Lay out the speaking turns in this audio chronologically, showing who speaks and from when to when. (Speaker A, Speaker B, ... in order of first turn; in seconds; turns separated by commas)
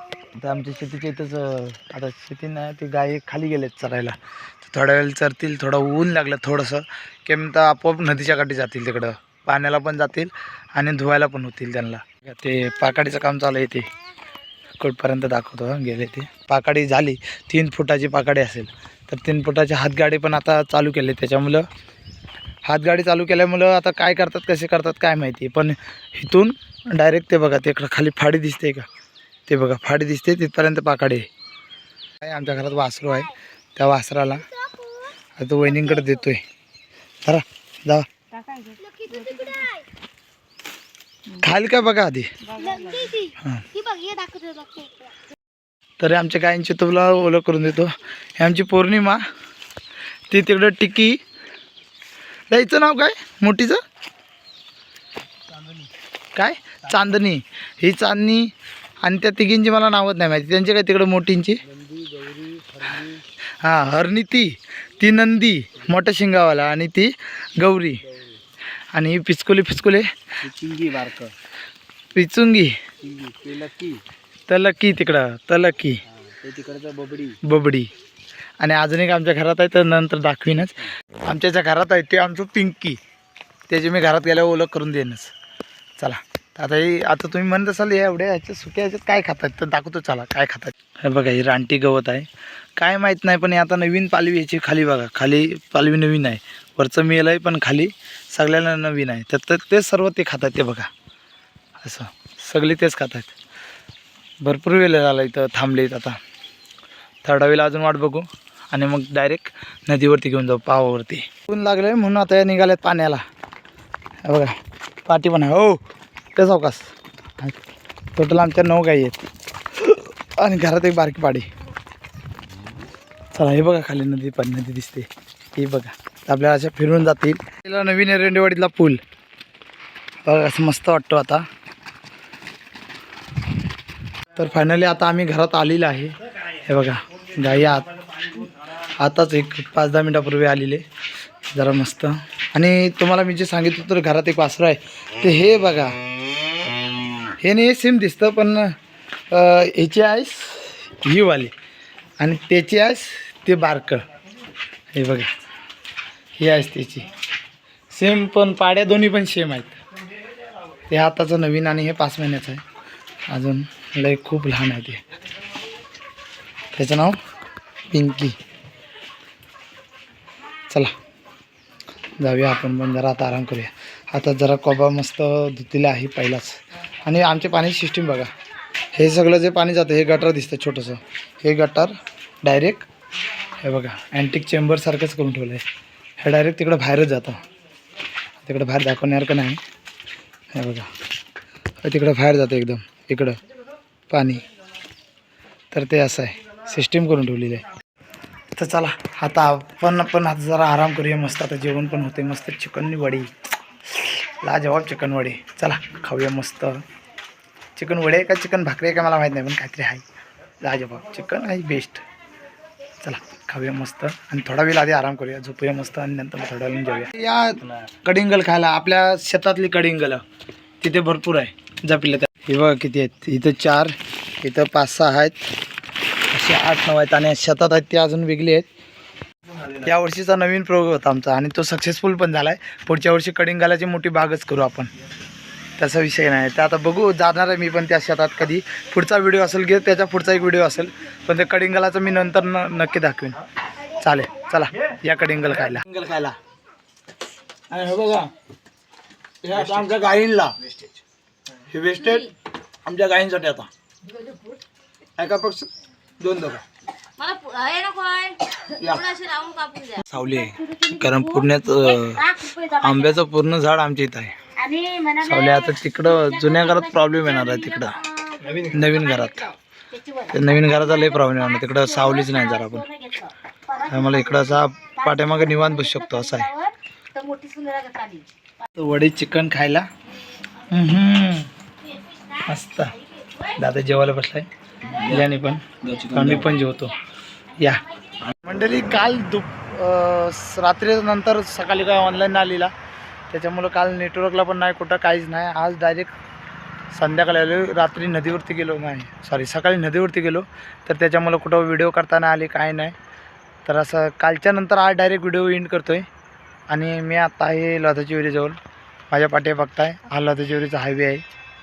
Speaker A: 0.3-13.9, Speaker A: 14.8-21.7, Speaker A: 22.6-28.9, Speaker A: 29.5-31.3, Speaker A: 32.2-34.6, Speaker A: 35.4-36.4, Speaker A: 37.2-38.1, Speaker B: 38.9-39.8, Speaker A: 41.3-42.3, Speaker A: 43.3-43.7, Speaker B: 43.8-44.9, Speaker A: 46.0-49.2, Speaker A: 50.3-51.2, Speaker A: 52.5-53.8, Speaker A: 56.3-61.6, Speaker C: 61.6-63.2, Speaker A: 63.6-68.0, Speaker A: 68.9-70.1, Speaker C: 70.4-71.3, Speaker A: 72.1-72.8, Speaker C: 73.0-74.0, Speaker A: 74.5-76.0, Speaker C: 76.1-77.4, Speaker A: 77.4-77.9, Speaker A: 78.6-83.0, Speaker A: 83.7-85.3, Speaker A: 86.0-100.9, Speaker A: 101.8-103.3, Speaker A: 104.4-106.2, Speaker A: 107.2-113.2, Speaker A: 114.2-115.8, Speaker A: 116.3-117.6, Speaker A: 118.1-121.5, Speaker A: 123.3-129.0, Speaker A: 130.2-131.4, Speaker A: 134.3-140.8, Speaker A: 141.5-145.9, Speaker A: 147.4-148.7, Speaker A: 149.3-151.5, Speaker A: 152.2-154.0, Speaker A: 154.9-155.3, Speaker A: 156.4-157.1, Speaker A: 157.9-159.8, Speaker A: 160.9-162.6, Speaker A: 163.3-165.0, Speaker A: 166.8-167.2, Speaker A: 167.9-168.4, Speaker A: 172.2-178.3, Speaker A: 178.9-182.9, Speaker A: 183.6-185.6, Speaker A: 186.2-187.4, Speaker A: 188.4-189.6, Speaker A: 190.5-190.9, Speaker A: 191.8-193.4, Speaker A: 194.1-194.4, Speaker A: 195.7-197.7, Speaker A: 198.6-203.3, Speaker A: 203.8-206.8, Speaker A: 207.8-210.1, Speaker A: 210.6-212.0, Speaker A: 213.0-220.2, Speaker A: 220.8-225.5, Speaker A: 226.3-228.7, Speaker A: 229.8-234.9, Speaker A: 235.8-243.4, Speaker A: 244.0-246.4, Speaker A: 247.7-248.3, Speaker A: 249.4-250.9, Speaker A: 251.6-252.3, Speaker A: 252.8-253.7, Speaker A: 255.2-256.6, Speaker B: 257.2-260.0, Speaker A: 258.7-259.2, Speaker A: 260.0-264.4, Speaker B: 264.7-265.1, Speaker A: 265.1-269.5, Speaker A: 270.1-276.7, Speaker B: 277.2-278.2, Speaker A: 278.7-279.9, Speaker A: 280.7-281.5, Speaker A: 282.4-287.0, Speaker A: 287.6-292.7, Speaker A: 293.3-296.1, Speaker A: 296.9-303.0, Speaker A: 303.6-306.1, Speaker A: 306.7-308.6, Speaker A: 309.1-311.2